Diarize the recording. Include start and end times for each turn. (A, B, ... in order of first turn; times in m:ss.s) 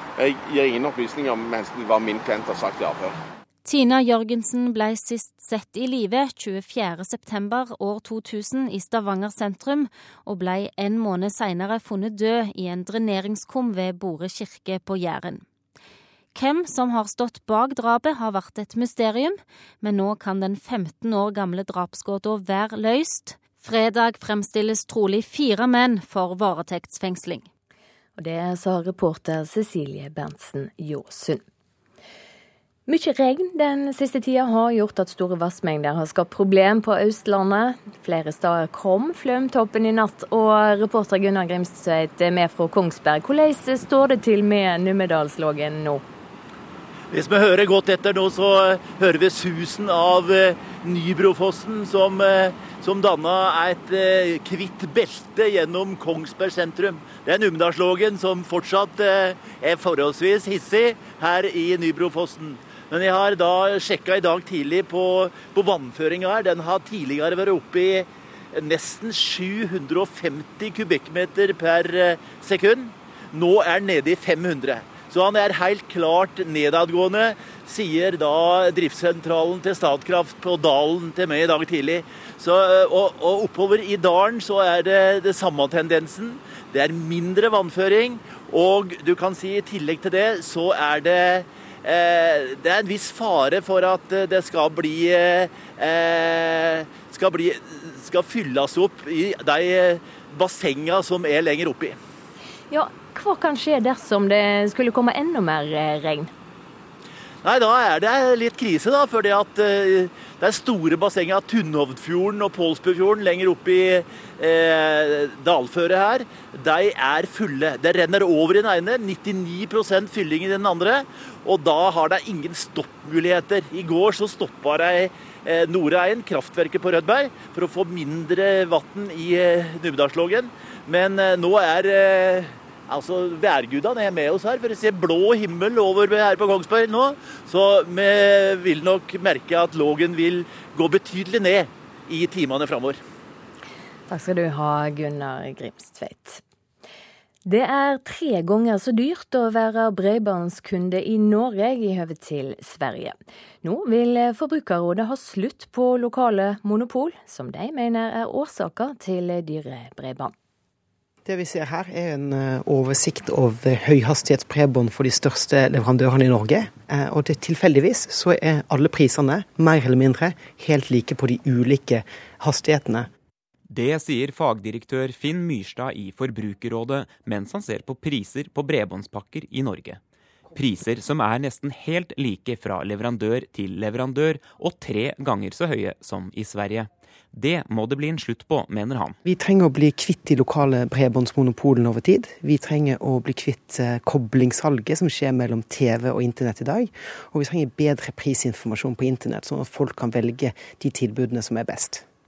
0:00.2-0:03.2 A
0:03.6-0:15.4 B
0:16.3-0:27.5 B
0:28.2-0:31.4 C
0:32.9-0:46.0 C
0:47.1-1:42.0 D
1:42.7-1:46.3 C
1:47.4-2:23.0 D
2:24.1-2:26.4 C
2:27.5-2:40.3 C
2:41.2-2:53.1 E
2:53.7-3:00.0 F
3:00.6-3:09.2 F
3:09.2-3:22.0 E